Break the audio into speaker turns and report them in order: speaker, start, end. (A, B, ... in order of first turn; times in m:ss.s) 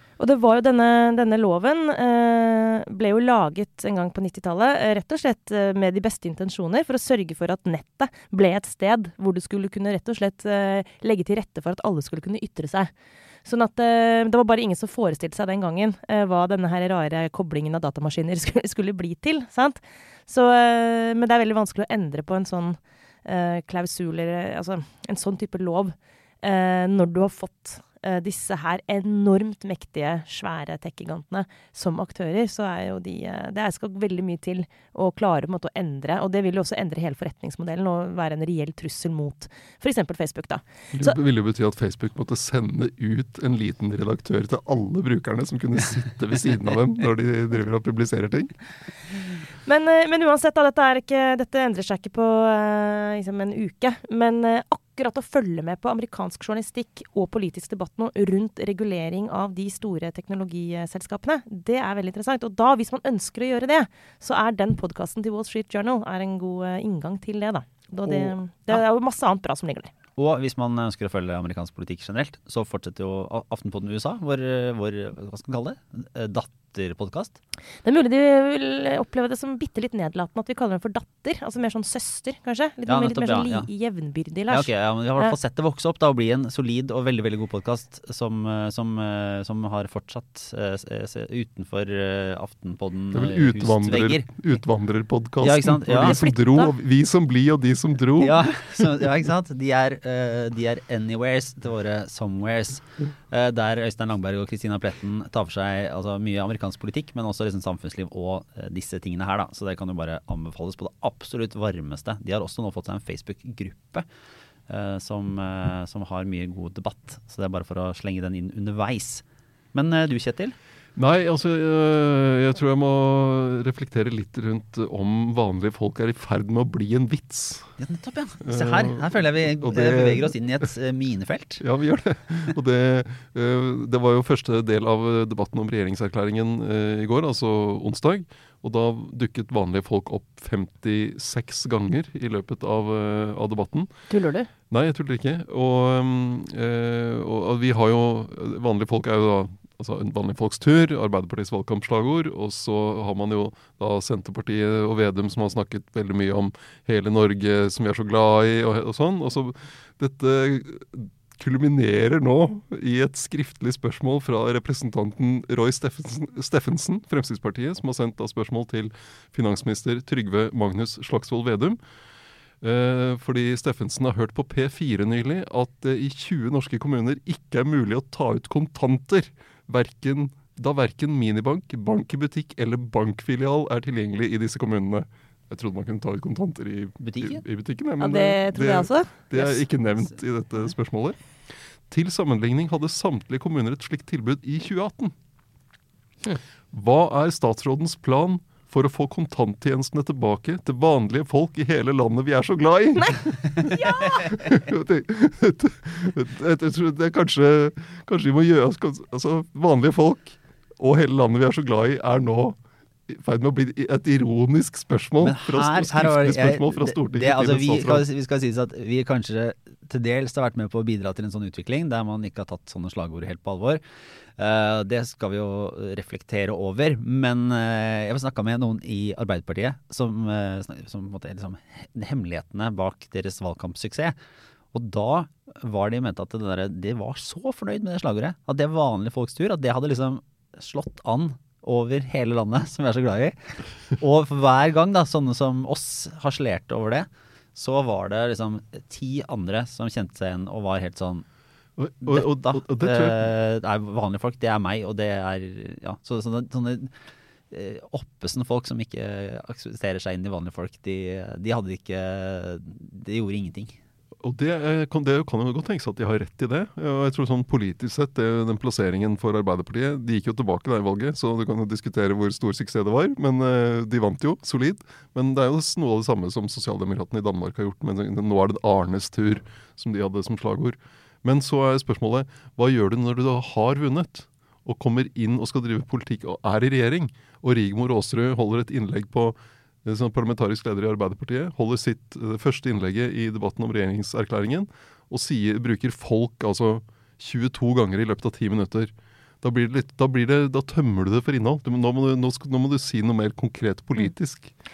0:00.2-0:12.9 A
0:13.4-0:41.2 A
0:40.9-0:48.5 B
0:49.6-1:09.9 A
1:10.2-1:17.4 C
1:17.8-1:25.4 A
1:22.9-1:23.7 C
1:24.5-1:34.5 C
1:33.1-1:38.8 B
1:35.4-1:36.2 C
1:35.9-1:36.7 A
1:38.2-1:54.0 C
1:54.7-2:00.6 C
2:01.0-2:07.7 B
2:07.8-2:11.6 C
2:08.4-2:10.4 B
2:11.6-2:23.9 B
2:24.1-2:24.5 A
2:24.7-2:51.8 B
2:52.6-3:11.2 B
3:07.0-3:07.4 C
3:08.0-3:09.6 A
3:11.9-3:15.2 B
3:16.7-3:38.0 B
3:23.7-3:24.4 A
3:35.2-3:43.8 C
3:44.4-3:54.2 C
3:54.7-4:11.2 C
4:11.8-4:13.2 B
4:12.1-4:16.9 C
4:17.5-4:23.8 C
4:24.2-5:04.5 B